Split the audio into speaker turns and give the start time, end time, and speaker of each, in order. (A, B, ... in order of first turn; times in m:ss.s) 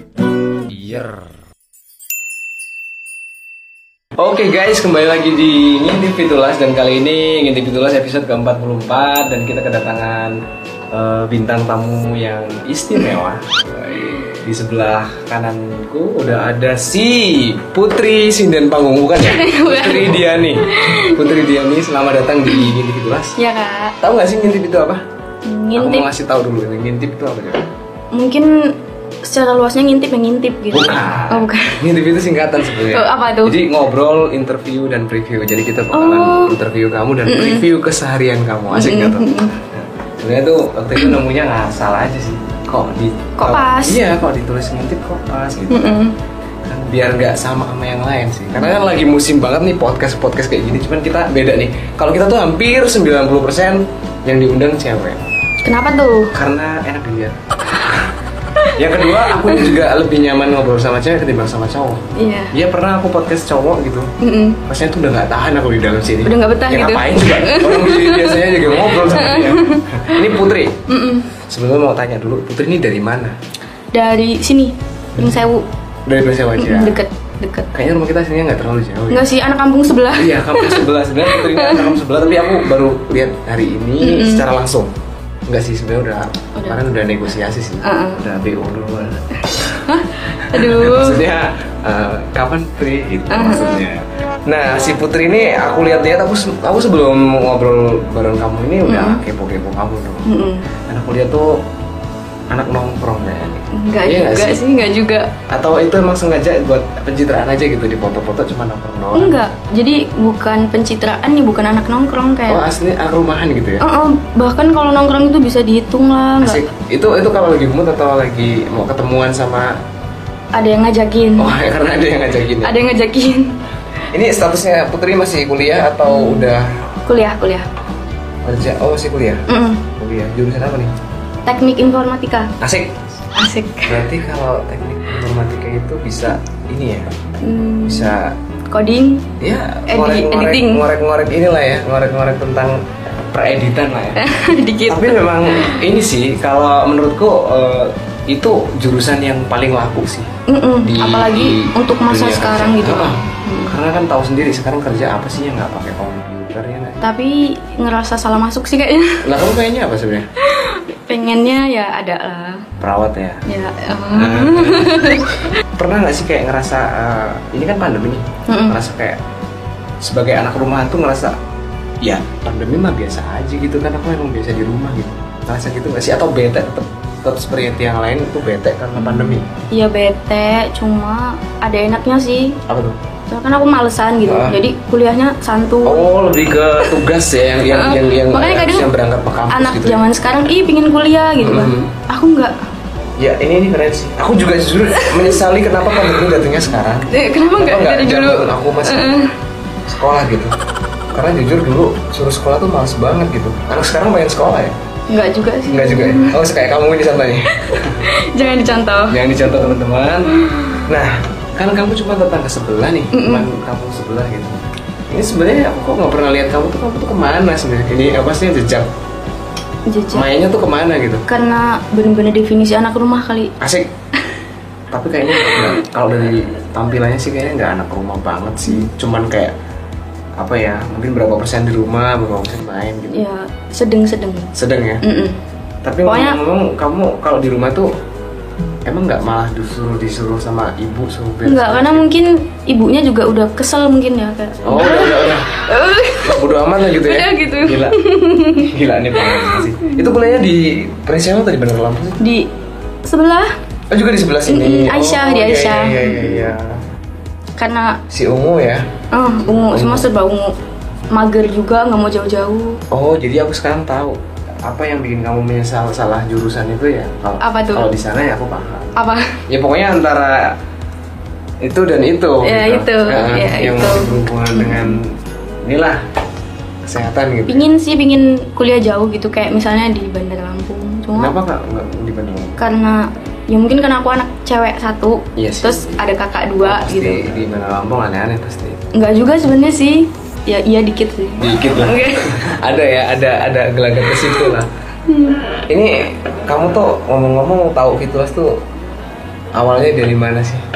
0:00.7-0:01.2 A
0:04.2-0:10.4 A
0:10.9-0:23.4 A
0:19.2-0:21.6 B
0:23.4-0:24.0 B
0:24.0-0:25.0 A
0:25.4-0:26.1 B
0:25.7-0:27.7 A
0:28.1-0:31.8 B
0:30.7-0:39.3 A
0:32.6-0:33.6 B
0:35.9-0:36.6 B
0:37.2-0:37.6 B
0:38.7-0:39.6 B
0:40.2-0:46.0 A
0:43.4-0:44.0 B
0:45.7-0:46.2 B
0:46.6-0:55.2 A
0:48.6-0:48.9 B
0:55.6-0:56.3 B
0:56.3-0:58.1 A
0:58.6-0:59.8 B
0:58.7-1:04.1 A
1:02.1-1:02.5 B
1:04.2-1:04.6 B
1:04.6-1:10.8 A
1:06.2-1:10.3 B
1:10.9-1:11.3 B
1:11.5-1:13.3 A
1:13.9-1:15.6 B
1:15.2-1:15.4 A
1:16.1-1:17.0 A
1:16.6-1:17.7 B
1:17.7-1:19.2 A
1:19.1-1:22.0 B
1:20.1-1:24.9 A
1:24.0-1:24.4 B
1:25.5-1:40.3 A
1:27.8-1:28.3 B
1:29.9-1:31.2 B
1:33.3-1:33.8 B
1:38.8-1:39.2 B
1:40.2-1:40.6 B
1:40.9-1:41.6 A
1:42.5-1:44.6 A
1:43.7-1:45.3 B
1:45.5-1:49.4 A
1:49.1-1:52.6 B
1:52.5-1:53.8 A
1:53.8-1:56.6 B
1:56.4-1:59.8 A
2:00.5-2:01.5 B
2:01.4-2:02.8 A
2:02.6-2:03.6 B
2:04.1-2:06.8 A
2:06.1-2:06.5 B
2:07.0-2:07.7 B
2:08.4-2:10.9 A
2:09.5-2:09.8 B
2:11.4-2:12.5 B
2:12.6-2:13.0 A
2:13.3-2:14.1 B
2:13.9-2:17.1 A
2:17.4-2:18.2 B
2:17.8-2:18.3 A
2:18.7-2:19.3 B
2:19.4-2:22.8 A
2:19.9-2:20.8 B
2:23.3-2:24.2 A
2:24.2-2:25.8 B
2:24.9-2:30.3 A
2:30.5-2:33.7 B
2:30.8-2:37.0 A
2:37.0-2:39.3 B
2:39.2-2:40.3 A
2:40.4-2:42.7 B
2:42.8-2:43.4 A
2:43.4-2:45.5 B
2:44.1-2:45.1 A
2:45.8-2:49.2 A
2:48.5-2:48.8 B
2:50.0-2:51.4 A
2:52.0-2:59.5 A
2:59.0-3:02.6 B
3:02.7-3:03.0 A
3:03.3-3:06.1 B
3:04.2-3:04.6 A
3:05.8-3:10.0 A
3:07.6-3:08.9 B
3:09.5-3:12.5 B
3:11.4-3:11.9 A
3:13.2-3:19.1 A
3:14.9-3:15.4 B
3:16.0-3:16.2 B
3:17.1-3:19.3 B
3:19.9-3:20.5 A
3:21.1-3:24.8 A
3:25.1-3:26.4 B
3:25.7-3:28.0 A
3:28.0-3:29.8 B
3:29.1-3:30.3 A
3:30.3-3:30.9 B
3:30.8-3:34.6 A
3:33.1-3:33.5 B
3:35.1-3:38.9 A
3:39.9-3:40.2 B
3:40.1-3:41.2 A
3:41.3-3:43.5 B
3:43.6-3:43.9 A
3:44.9-3:49.5 A
3:45.3-3:45.8 B
3:50.4-3:53.2 A
3:53.1-3:55.4 B
3:54.5-3:55.0 A
3:55.8-3:57.9 A
3:56.0-3:56.4 B
3:58.8-4:02.1 A
4:01.4-4:10.3 B
4:04.6-4:05.5 A
4:06.2-4:08.0 A
4:08.5-4:12.2 A
4:12.2-4:12.5 B
4:13.0-4:13.5 B
4:13.9-4:16.8 A
4:14.5-4:16.5 B
4:17.6-4:18.0 B
4:18.1-4:19.0 A
4:19.1-4:20.5 B
4:19.6-4:20.1 A
4:21.1-4:22.8 B
4:22.9-4:28.9 A
4:27.4-4:27.9 B
4:29.0-4:29.4 B
4:29.5-4:30.6 A
4:31.6-4:36.0 A
4:32.4-4:35.0 B
4:36.8-4:37.6 A
4:37.5-4:41.3 B
4:41.2-4:42.6 A
4:42.6-4:47.3 B
4:45.4-4:46.0 A
4:46.6-4:48.8 A
4:48.9-4:52.4 B
4:51.4-4:54.7 A
4:55.1-4:55.4 B
4:55.7-4:58.6 A
4:59.6-5:00.6 A